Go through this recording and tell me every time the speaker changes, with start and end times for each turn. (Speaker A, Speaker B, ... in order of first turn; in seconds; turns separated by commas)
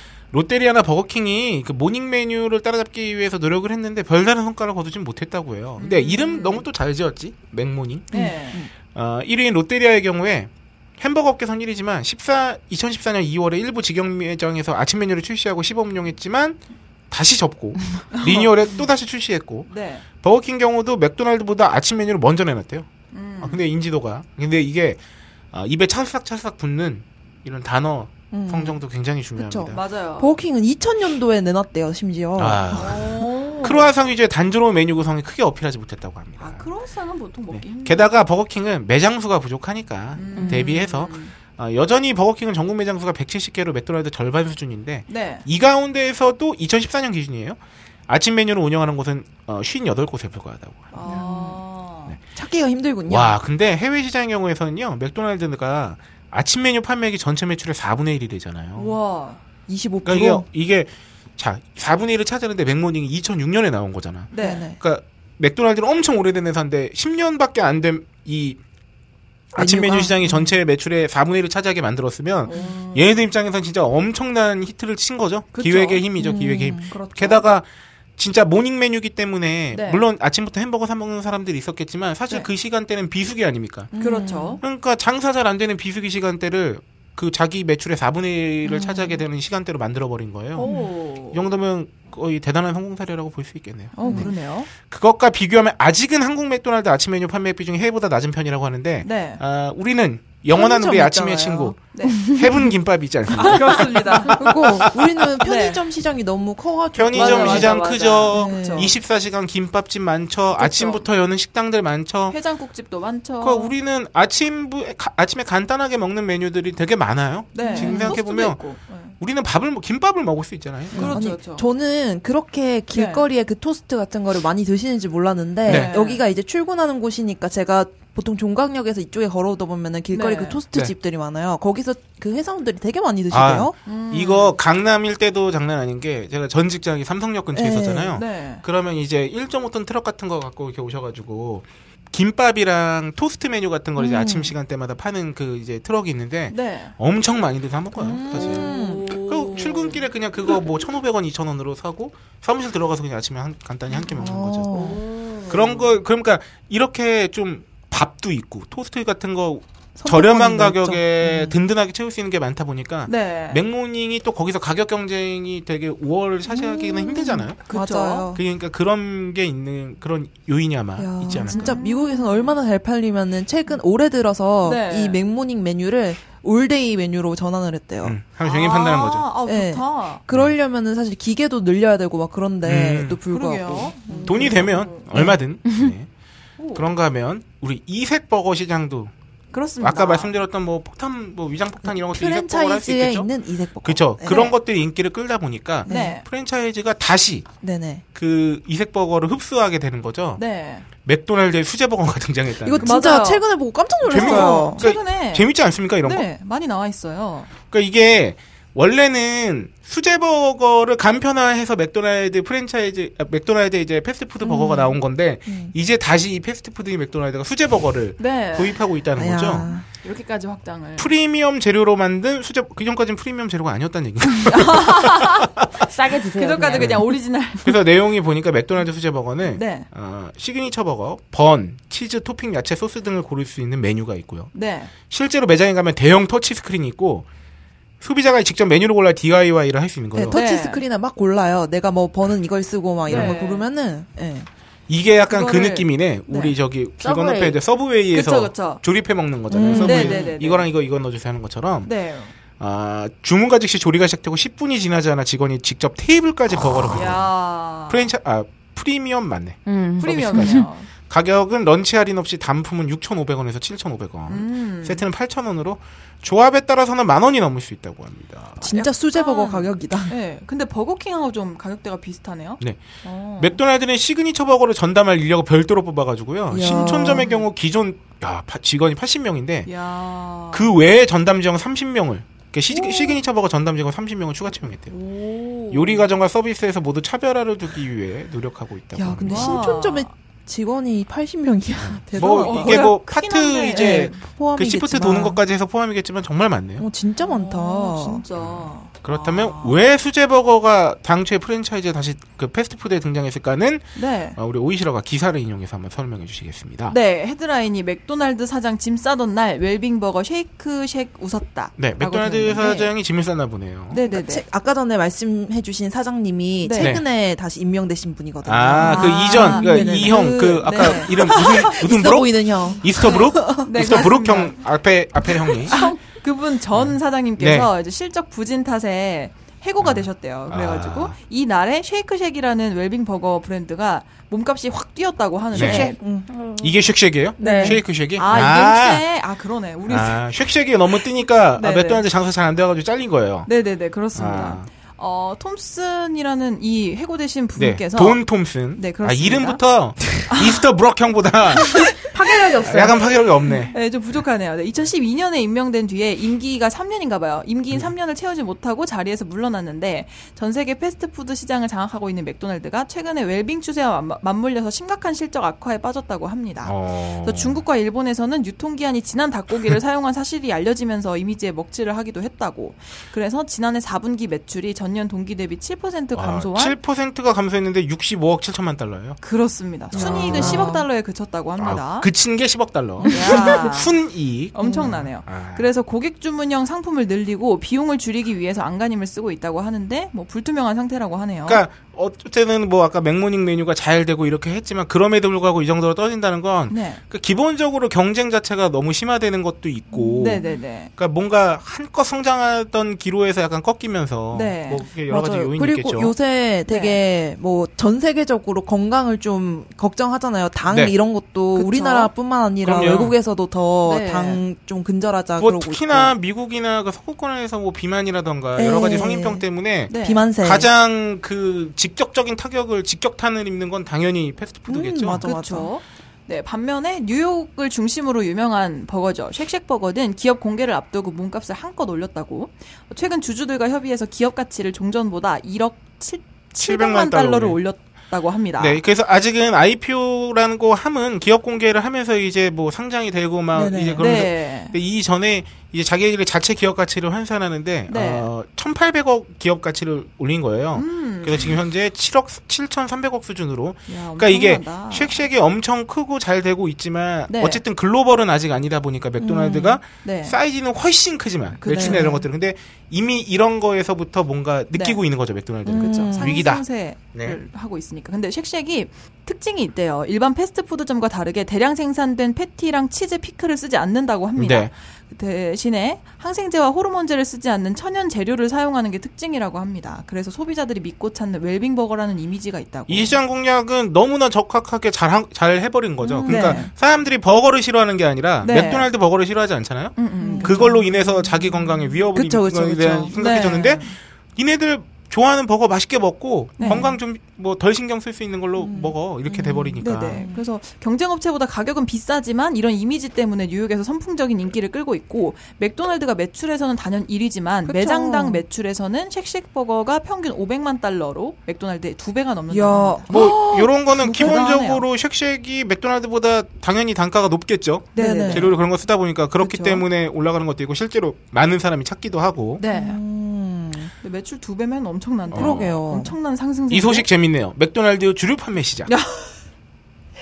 Speaker A: 0.3-16.6, Speaker B: 5.8-6.7, Speaker B: 8.1-8.6, Speaker C: 8.1-8.7, Speaker A: 17.1-22.9, Speaker B: 18.1-18.5, Speaker B: 19.7-20.1, Speaker B: 23.1-23.6, Speaker A: 23.4-25.0, Speaker A: 25.5-29.8, Speaker C: 28.3-28.8, Speaker C: 29.4-33.0, Speaker B: 29.7-30.4, Speaker A: 32.4-36.7, Speaker B: 32.7-33.9, Speaker B: 36.4-38.2, Speaker A: 37.5-51.0, Speaker B: 40.1-41.4, Speaker B: 45.1-45.5, Speaker B: 50.9-52.2, Speaker C: 51.0-51.6, Speaker C: 52.4-53.4, Speaker A: 53.1-59.0, Speaker B: 58.8-59.4, Speaker C: 59.7-60.5, Speaker A: 60.0-68.6, Speaker B: 64.3-64.7, Speaker C: 64.4-64.8, Speaker A: 69.5-77.7, Speaker C: 69.6-70.5, Speaker B: 72.5-73.1, Speaker B: 75.5-76.0, Speaker C: 76.2-76.9, Speaker B: 76.8-77.5, Speaker A: 78.2-83.9, Speaker B: 79.7-80.0, Speaker C: 83.9-84.6, Speaker B: 84.0-84.6, Speaker A: 84.6-90.7, Speaker C: 88.7-89.2, Speaker B: 90.5-91.4, Speaker A: 91.3-104.9, Speaker B: 94.0-94.7, Speaker C: 94.0-94.3, Speaker B: 99.0-99.4, Speaker C: 100.5-101.8, Speaker B: 101.9-102.3, Speaker B: 103.4-104.9, Speaker C: 104.3-108.9, Speaker B: 105.4-105.8, Speaker A: 107.0-112.4, Speaker B: 107.1-108.9, Speaker B: 110.6-111.0, Speaker B: 112.3-113.7, Speaker A: 113.4-118.7, Speaker B: 117.5-119.2, Speaker C: 117.6-118.2, Speaker A: 119.2-121.2, Speaker B: 120.9-121.7, Speaker C: 120.9-133.7, Speaker B: 122.9-123.3, Speaker A: 125.7-125.9, Speaker B: 125.7-126.2, Speaker B: 130.1-130.6, Speaker A: 133.3-154.7, Speaker B: 133.8-134.6, Speaker C: 137.5-138.2, Speaker B: 138.1-138.6, Speaker C: 144.0-144.5, Speaker B: 146.5-146.9, Speaker C: 147.9-149.1, Speaker B: 148.3-150.0, Speaker C: 154.1-155.0, Speaker B: 154.7-155.9, Speaker A: 155.5-167.6, Speaker C: 160.0-161.6, Speaker B: 163.1-163.6, Speaker C: 166.5-168.4, Speaker B: 167.7-168.3, Speaker A: 168.3-171.8, Speaker C: 171.0-178.2, Speaker B: 171.4-172.6, Speaker B: 174.6-175.2, Speaker A: 178.0-179.3, Speaker B: 178.4-180.2, Speaker C: 179.5-185.4, Speaker A: 182.6-183.2, Speaker B: 183.3-185.3, Speaker A: 184.2-186.1, Speaker B: 186.6-186.9, Speaker A: 186.7-189.1, Speaker B: 189.5-190.3, Speaker A: 189.8-193.3, Speaker C: 191.8-194.5, Speaker A: 193.8-197.5, Speaker B: 194.3-194.6, Speaker C: 195.8-196.2, Speaker B: 195.9-196.2, Speaker C: 197.6-198.0, Speaker A: 198.2-200.4, Speaker B: 200.4-200.9, Speaker A: 201.0-203.0, Speaker C: 202.6-204.8, Speaker B: 202.8-203.4, Speaker B: 204.1-205.5, Speaker A: 204.1-206.3, Speaker B: 206.0-207.5, Speaker A: 207.7-219.7, Speaker C: 214.5-214.9, Speaker C: 215.5-215.7, Speaker B: 218.2-218.8, Speaker C: 219.2-219.8, Speaker B: 220.0-221.1, Speaker A: 221.0-225.7, Speaker B: 224.4-225.5, Speaker D: 225.8-227.1, Speaker B: 226.3-227.8, Speaker A: 226.8-227.0, Speaker A: 227.6-234.5, Speaker B: 229.5-229.9, Speaker B: 234.5-234.9, Speaker A: 235.1-237.3, Speaker A: 238.0-240.4, Speaker C: 240.2-244.5, Speaker B: 240.3-240.8, Speaker A: 243.1-243.4, Speaker B: 243.1-243.7, Speaker A: 244.9-251.9, Speaker B: 245.3-246.6, Speaker D: 247.0-247.6, Speaker B: 248.1-248.8, Speaker C: 249.5-250.3, Speaker B: 249.8-250.7, Speaker B: 251.8-252.3, Speaker A: 252.6-257.3, Speaker B: 256.9-258.1, Speaker A: 257.9-268.7, Speaker D: 259.7-260.7, Speaker B: 260.0-260.9, Speaker B: 264.3-265.1, Speaker C: 268.6-270.1, Speaker B: 268.6-273.6, Speaker A: 273.4-279.7, Speaker C: 276.5-277.3, Speaker B: 276.6-277.4, Speaker B: 279.7-280.7, Speaker A: 280.5-284.9, Speaker C: 282.7-283.1, Speaker B: 284.9-286.1, Speaker A: 285.7-289.6, Speaker C: 288.9-293.0, Speaker B: 289.3-290.1, Speaker A: 291.8-296.9, Speaker B: 292.2-294.2, Speaker C: 293.7-295.4, Speaker C: 296.8-298.2, Speaker B: 297.2-299.8, Speaker A: 298.4-307.0, Speaker B: 304.0-304.4, Speaker B: 306.9-312.9, Speaker A: 311.8-314.0, Speaker B: 313.9-314.4, Speaker C: 314.1-324.0, Speaker B: 316.6-317.0, Speaker A: 316.8-317.0, Speaker A: 318.4-325.8, Speaker B: 318.7-321.8, Speaker B: 323.0-324.6, Speaker B: 325.7-336.0, Speaker A: 326.8-327.7, Speaker A: 329.8-331.1, Speaker A: 335.5-335.9, Speaker C: 335.6-336.3, Speaker D: 335.6-336.8, Speaker A: 336.6-339.0, Speaker D: 337.4-337.8, Speaker C: 337.4-337.8, Speaker B: 338.2-340.2, Speaker A: 339.9-343.5, Speaker B: 341.6-342.0, Speaker B: 343.5-348.2, Speaker A: 344.1-344.7, Speaker A: 347.6-352.1, Speaker B: 348.7-349.6, Speaker B: 350.2-350.6, Speaker D: 352.1-353.0, Speaker C: 352.3-352.9, Speaker A: 352.6-353.7, Speaker B: 353.7-376.8, Speaker A: 366.6-367.6, Speaker A: 376.1-379.2, Speaker B: 379.2-382.1, Speaker A: 379.9-380.7, Speaker C: 379.9-380.9, Speaker A: 381.6-385.7, Speaker C: 383.0-383.6, Speaker B: 383.1-384.0, Speaker B: 384.5-391.6, Speaker C: 384.6-385.0, Speaker A: 391.5-406.1, Speaker B: 396.7-397.0, Speaker B: 400.2-400.9, Speaker B: 404.3-404.9, Speaker C: 405.1-416.1, Speaker B: 406.7-407.0, Speaker A: 410.7-410.9, Speaker B: 411.6-412.1, Speaker A: 412.6-413.1, Speaker B: 413.8-414.4, Speaker A: 415.4-425.2, Speaker C: 418.6-420.7, Speaker B: 419.9-420.2, Speaker C: 424.7-425.7, Speaker B: 425.2-438.8, Speaker A: 436.6-437.6, Speaker A: 438.6-467.4, Speaker C: 443.5-444.2, Speaker B: 444.0-444.8, Speaker B: 447.9-448.3, Speaker B: 450.8-451.6, Speaker B: 453.9-455.2, Speaker B: 457.3-457.6, Speaker C: 459.2-459.8, Speaker B: 460.0-460.4, Speaker B: 461.6-462.2, Speaker C: 461.7-462.2, Speaker B: 464.7-465.0, Speaker C: 465.7-466.5, Speaker B: 465.7-483.2, Speaker A: 474.4-474.7, Speaker A: 482.9-500.2, Speaker C: 486.0-486.7, Speaker B: 486.3-486.7, Speaker B: 488.4-488.9, Speaker B: 490.0-491.0, Speaker C: 490.2-493.2, Speaker B: 493.1-494.0, Speaker B: 496.6-496.9, Speaker C: 496.6-497.0, Speaker C: 498.6-500.4, Speaker B: 499.8-513.2, Speaker C: 507.7-508.4, Speaker C: 512.5-514.5, Speaker A: 513.1-522.6, Speaker B: 513.9-514.9, Speaker B: 517.9-518.5, Speaker C: 518.0-518.5, Speaker B: 519.5-519.8, Speaker B: 522.6-523.0, Speaker C: 522.6-523.9, Speaker B: 524.0-527.1, Speaker A: 525.3-525.8, Speaker C: 525.3-526.1, Speaker A: 526.7-528.9, Speaker B: 528.9-529.4